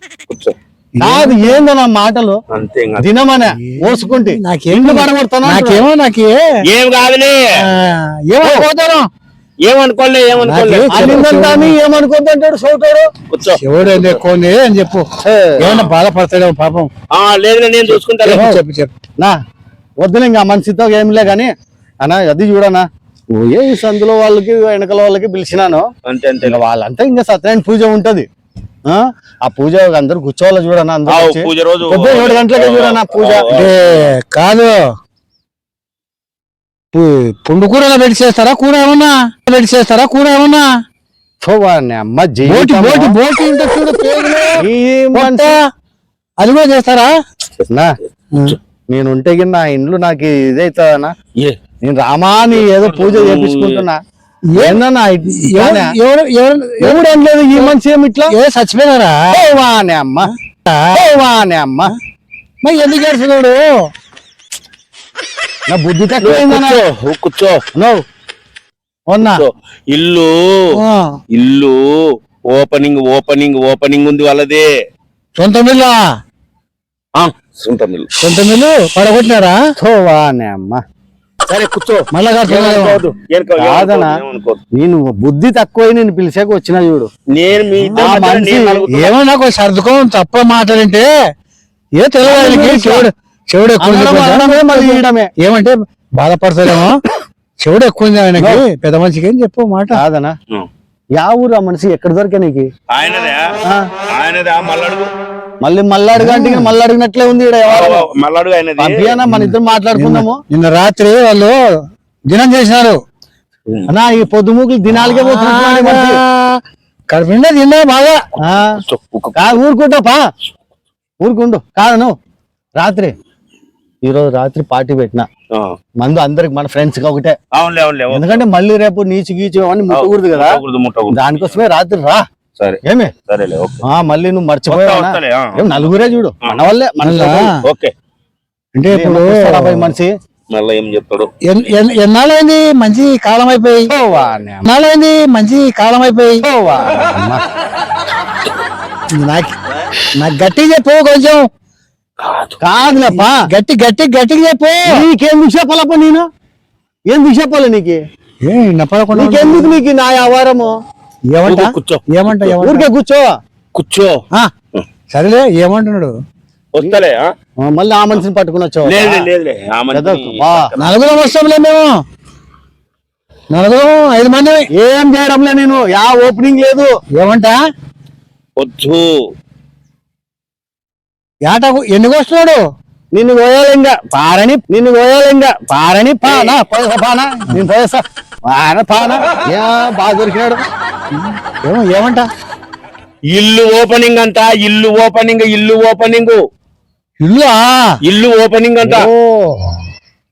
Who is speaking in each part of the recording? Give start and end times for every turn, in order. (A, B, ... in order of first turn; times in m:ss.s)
0:00.3-0:00.5 A
0:01.0-0:01.6 B
0:01.0-0:02.4 C
0:02.5-0:03.1 A
0:03.0-0:05.9 C
0:03.6-0:06.5 B
0:06.7-0:07.4 A
0:07.6-0:09.1 B
0:08.4-0:08.7 C
0:09.6-0:11.3 A
0:10.4-0:11.8 B
0:10.9-0:13.1 C
0:13.3-0:14.2 A
0:13.6-0:15.1 B
0:15.2-0:15.7 C
0:15.6-0:16.9 B
0:15.6-0:15.9 A
0:17.1-0:18.6 A
0:18.2-0:18.9 B
0:20.0-0:21.5 C
0:22.0-0:22.8 C
0:23.4-0:25.8 C
0:26.1-0:26.6 A
0:26.4-0:28.3 C
0:28.9-0:33.5 C
0:31.1-0:34.1 A
0:33.5-0:34.8 B
0:36.9-0:40.7 B
0:41.4-0:43.2 C
0:42.5-0:44.6 B
0:44.6-0:45.5 C
0:45.1-0:45.6 B
0:46.4-0:47.1 B
0:47.7-0:47.9 C
0:48.9-0:51.1 C
0:51.8-0:54.0 C
0:52.5-0:53.8 A
0:54.5-0:54.8 B
0:54.6-0:55.9 C
0:55.5-0:57.0 B
0:56.8-0:58.3 C
0:58.3-0:59.2 B
0:59.3-1:00.3 C
1:00.9-1:01.9 C
1:02.6-1:03.7 B
1:05.7-1:06.8 C
1:06.2-1:07.6 A
1:09.1-1:09.4 C
1:09.2-1:10.7 A
1:10.8-1:11.1 B
1:11.3-1:11.8 A
1:12.5-1:14.7 A
1:15.4-1:16.0 B
1:17.2-1:18.1 A
1:18.2-1:19.6 B
1:19.8-1:20.8 C
1:21.5-1:24.6 A
1:22.1-1:23.0 B
1:23.6-1:24.2 C
1:24.7-1:27.1 C
1:27.3-1:29.1 A
1:28.0-1:28.8 C
1:29.0-1:31.1 B
1:32.0-1:37.0 B
1:32.3-1:33.1 C
1:33.8-1:35.3 C
1:37.6-1:40.0 B
1:38.4-1:38.6 C
1:39.9-1:40.3 C
1:41.2-1:42.7 C
1:42.9-1:43.4 A
1:44.1-1:45.1 A
1:45.6-1:48.1 C
1:46.2-1:46.7 B
1:47.7-1:49.0 A
1:48.8-1:50.4 C
1:49.3-1:51.6 B
1:52.3-1:53.0 B
1:53.9-1:56.2 C
1:54.9-1:56.6 B
1:57.1-1:58.2 B
1:58.4-1:59.6 A
1:59.4-2:00.2 C
2:01.2-2:02.1 C
2:02.8-2:03.1 C
2:04.0-2:05.3 C
2:06.0-2:07.4 C
2:07.6-2:08.4 A
2:08.1-2:10.6 C
2:09.9-2:11.6 A
2:11.1-2:12.2 C
2:12.6-2:13.8 A
2:12.8-2:13.1 C
2:13.9-2:17.5 C
2:14.7-2:15.9 A
2:17.0-2:17.6 B
2:17.6-2:17.9 A
2:18.8-2:19.9 B
2:18.9-2:20.1 C
2:20.5-2:21.3 A
2:21.4-2:23.9 B
2:23.9-2:24.7 C
2:24.6-2:26.4 B
2:26.4-2:27.4 C
2:29.1-2:29.5 B
2:30.2-2:31.5 B
2:32.2-2:32.6 A
2:32.6-2:33.4 C
2:33.1-2:35.0 B
2:34.9-2:36.3 C
2:37.1-2:38.0 C
2:38.4-2:39.7 B
2:39.1-2:40.7 C
2:41.3-2:42.9 B
2:41.4-2:42.0 A
2:42.5-2:43.3 C
2:43.7-2:44.1 A
2:45.1-2:46.1 B
2:46.8-2:47.3 A
2:47.6-2:49.3 C
2:48.9-2:50.8 A
2:49.9-2:50.7 C
2:50.8-2:51.9 B
2:53.5-2:54.7 B
2:54.8-2:56.9 C
2:57.2-2:57.6 B
2:58.6-2:59.1 A
3:01.5-3:02.6 B
3:03.1-3:10.6 C
3:06.2-3:06.5 A
3:11.1-3:12.3 B
3:13.3-3:16.4 A
3:17.2-3:17.9 B
3:18.0-3:19.1 A
3:18.8-3:19.7 C